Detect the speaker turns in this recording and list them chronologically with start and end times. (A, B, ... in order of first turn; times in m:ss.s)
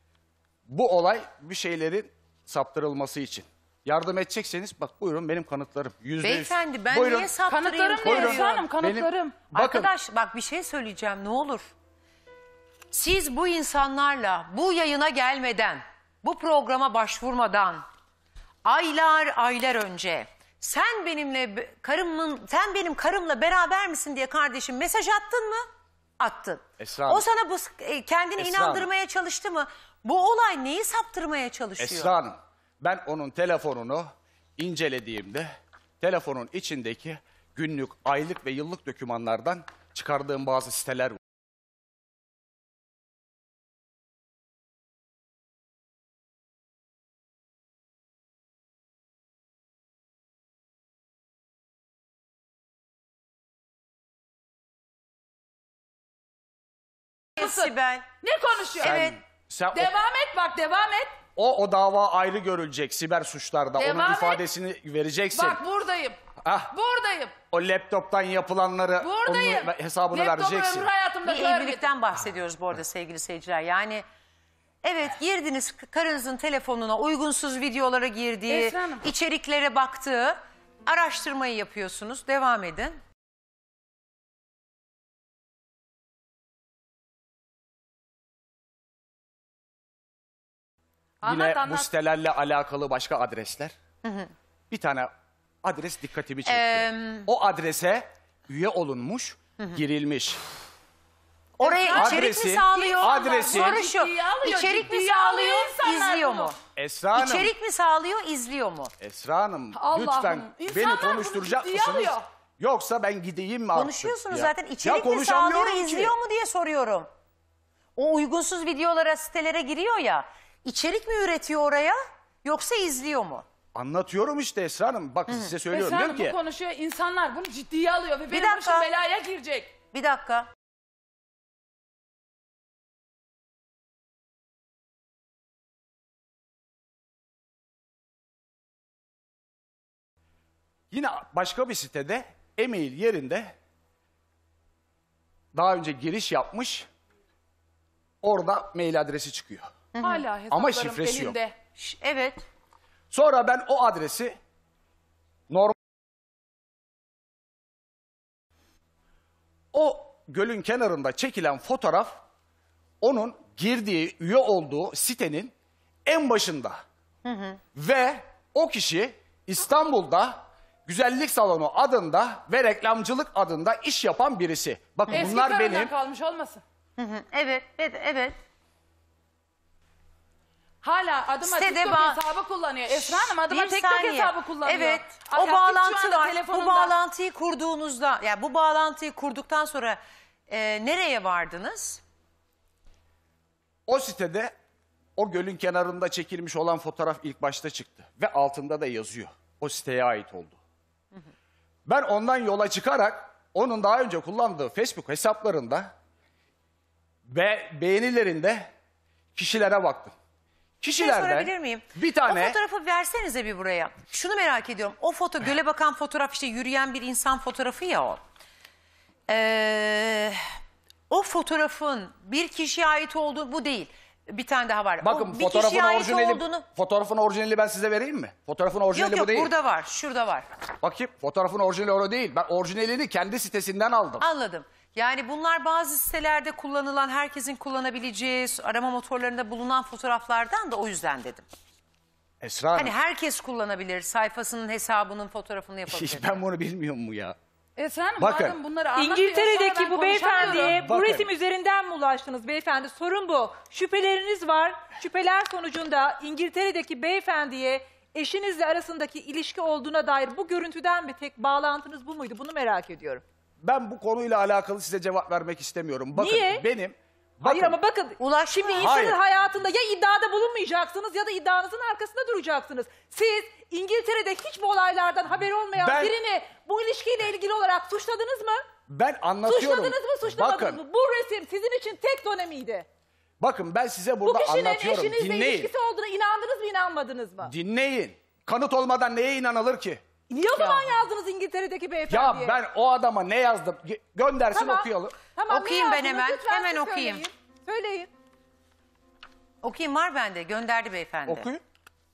0:00.7-0:07.3 A
0:06.2-0:08.7 B
0:07.5-0:09.4 C
0:08.0-0:09.9 A
0:09.5-0:11.7 B
0:12.9-0:17.8 B
0:18.6-0:25.6 B
0:26.2-0:32.1 B
0:26.8-0:27.2 A
0:28.4-0:28.9 A
0:31.8-0:41.2 A
0:57.4-0:58.0 B
0:57.4-0:59.0 C
0:58.8-0:59.2 B
0:58.8-0:59.9 A
0:59.7-1:01.1 C
1:01.4-1:05.6 A
1:03.8-1:04.4 C
1:05.3-1:06.2 C
1:06.4-1:06.7 A
1:06.7-1:07.3 C
1:07.5-1:10.9 A
1:09.0-1:11.9 C
1:11.2-1:14.0 B
1:14.8-1:23.0 B
1:18.5-1:19.1 C
1:31.2-1:31.9 C
1:31.2-1:33.8 A
1:34.0-1:34.3 B
1:34.7-1:35.1 A
1:35.6-1:40.4 A
1:36.4-1:37.3 B
1:41.6-1:46.5 B
1:41.6-1:46.5 C
1:41.9-1:43.8 A
1:46.8-1:47.5 A
1:47.1-1:48.9 B
1:49.0-1:56.1 A
1:49.7-1:52.2 C
1:53.7-1:57.1 B
1:58.0-2:03.4 B
2:03.7-2:06.4 A
2:05.7-2:09.7 C
2:08.3-2:08.9 B
2:09.9-2:10.5 B
2:20.9-2:23.5 A
2:25.5-2:26.9 A
2:28.2-2:29.7 A
2:29.9-2:30.2 B
2:30.0-2:31.5 C
2:30.5-2:31.4 A
2:31.8-2:32.4 B
2:33.1-2:34.4 A
2:35.5-2:35.8 A
2:39.7-2:42.2 A
2:43.0-2:45.5 A
2:46.0-2:46.8 A
2:47.2-2:47.6 B
2:47.8-2:55.9 A
2:55.1-2:56.6 C
2:57.0-2:58.4 B
3:00.8-3:07.0 C
3:01.4-3:02.2 B
3:02.9-3:12.0 B
3:13.9-3:14.5 A
3:15.2-3:20.6 A
3:21.9-3:25.9 A
3:27.3-3:28.7 A
3:29.3-3:30.1 A
3:30.8-3:32.6 A
3:30.9-3:38.2 B
3:39.3-3:40.4 B
3:41.1-3:46.6 B
3:45.0-3:49.5 A
3:48.9-3:50.5 B
3:50.8-3:54.2 A
3:54.2-4:01.4 B
4:02.4-4:02.9 A
4:02.8-4:06.4 B
4:05.9-4:07.4 A
4:07.8-4:10.8 C
4:08.2-4:08.6 A
4:09.0-4:23.2 D
4:10.8-4:11.3 A
4:23.6-4:27.8 A
4:26.2-4:26.6 D
4:27.4-4:38.6 D
4:28.2-4:28.8 B
4:28.7-4:29.2 A
4:35.8-4:36.2 A
4:38.9-4:40.8 A
4:39.4-4:42.8 D
4:43.4-4:45.7 A
4:44.2-4:47.5 D
4:47.4-4:50.0 A
4:50.3-4:52.6 D
4:52.1-4:55.2 A
4:54.5-4:58.1 D
4:55.5-4:57.2 B
4:59.6-5:01.5 B
5:01.2-5:01.6 A